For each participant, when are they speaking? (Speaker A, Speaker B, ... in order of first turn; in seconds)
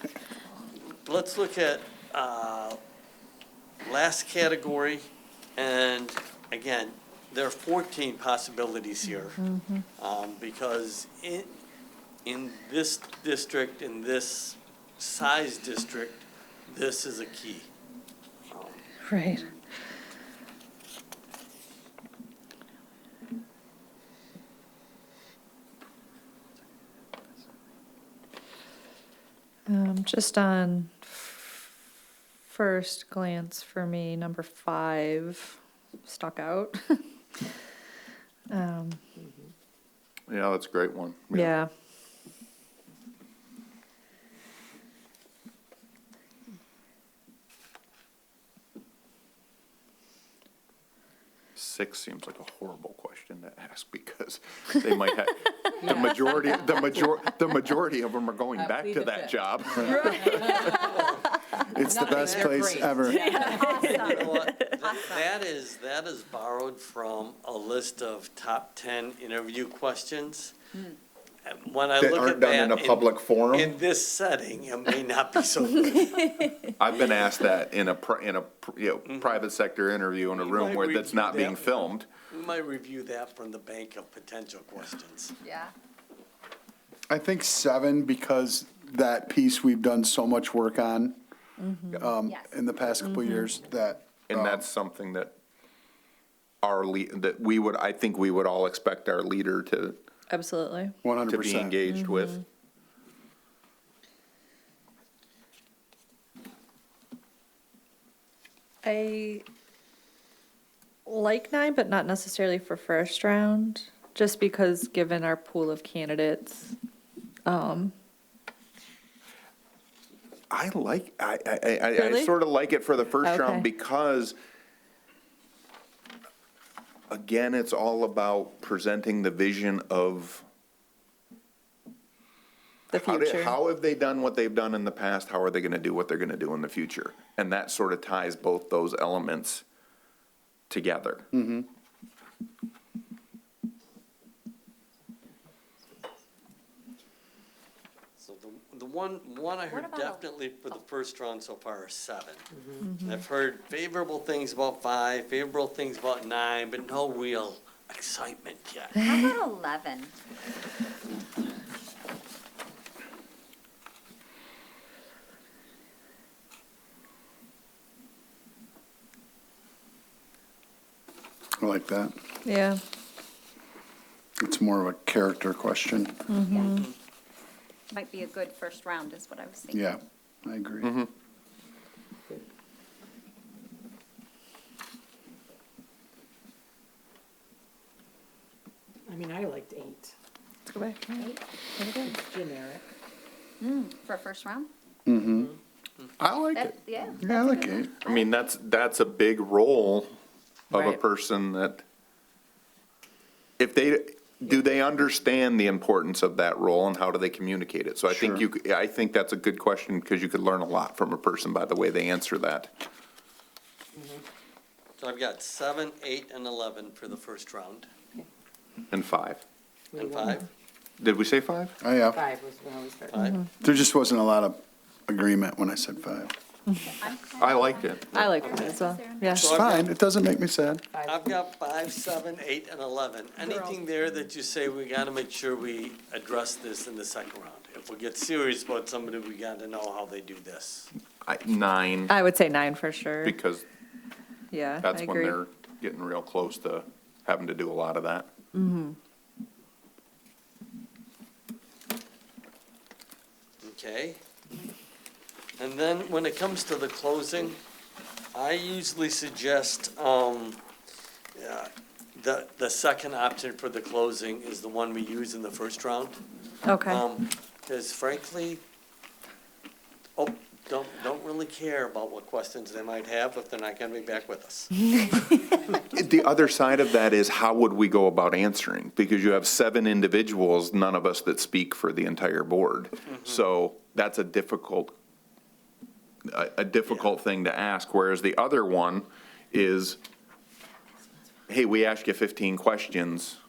Speaker A: 0.9-2.8, 3.8-9.4, 10.0-11.6, 12.2-17.7, 18.5-18.9, 60.8-61.1, 62.2-70.5, 71.5-76.5, 79.1-79.3, 80.3-85.3, 148.2-152.5, 153.0-159.0, 176.7-176.9, 215.0-217.9, 219.9-220.5, 223.1-223.4, 228.4-229.9, 231.1-240.9, 253.6-254.2, 255.6-257.6, 258.3-260.6, 261.4-266.2, 266.9-268.6, 270.2-274.7, 283.1-283.4
Speaker B: 9.4-9.8, 19.1-19.5, 29.7-31.7, 32.5-37.0, 38.5-39.0, 41.3-41.7, 63.4-64.6, 91.6-92.1, 93.0-93.5, 100.3-101.0, 101.9-102.4, 108.8-109.5, 111.1-116.8, 117.5-117.9, 121.9-122.3, 123.2-123.7, 132.9-133.6, 152.8-153.2, 172.4-172.8, 176.3-176.9, 190.7-192.2, 200.7-201.0, 223.2-223.5, 228.1-229.5, 242.1-243.4, 244.5-245.4, 248.5-249.0, 266.6-267.0
Speaker C: 40.3-41.6, 51.6-61.0, 72.0-73.8, 76.8-82.1, 94.3-95.3, 96.6-100.0, 101.3-102.4, 120.5-124.4, 127.1-130.5, 132.9-139.7, 140.7-141.3, 180.8-181.1, 196.2-196.8, 198.0-200.1, 200.7-201.8, 203.6-212.7, 218.9-219.4, 221.0-221.8, 227.3-228.4, 241.2-242.1, 243.2-243.7, 244.8-248.3, 275.9-284.9, 286.3-290.0, 291.5-293.4
Speaker D: 55.8-57.2, 58.5-64.2, 189.1-190.1, 192.1-192.8, 214.0-214.2, 219.9-220.5, 222.1-223.3, 230.9-231.3
Speaker E: 61.7-63.3, 87.1-91.2, 91.9-94.7, 101.0-101.8, 141.3-141.7, 171.6-172.1, 174.4-176.2, 179.7-180.9, 195.1-195.5, 197.2-197.9, 208.1-208.4, 221.8-222.2, 223.6-226.3, 229.4-230.8
Speaker F: 63.5-64.3, 64.9-65.2, 85.4-85.7, 92.2-92.6, 149.7-150.8, 159.0-160.1, 176.5-176.8, 177.9-179.8, 193.6-194.7, 196.5-198.4, 226.8-229.4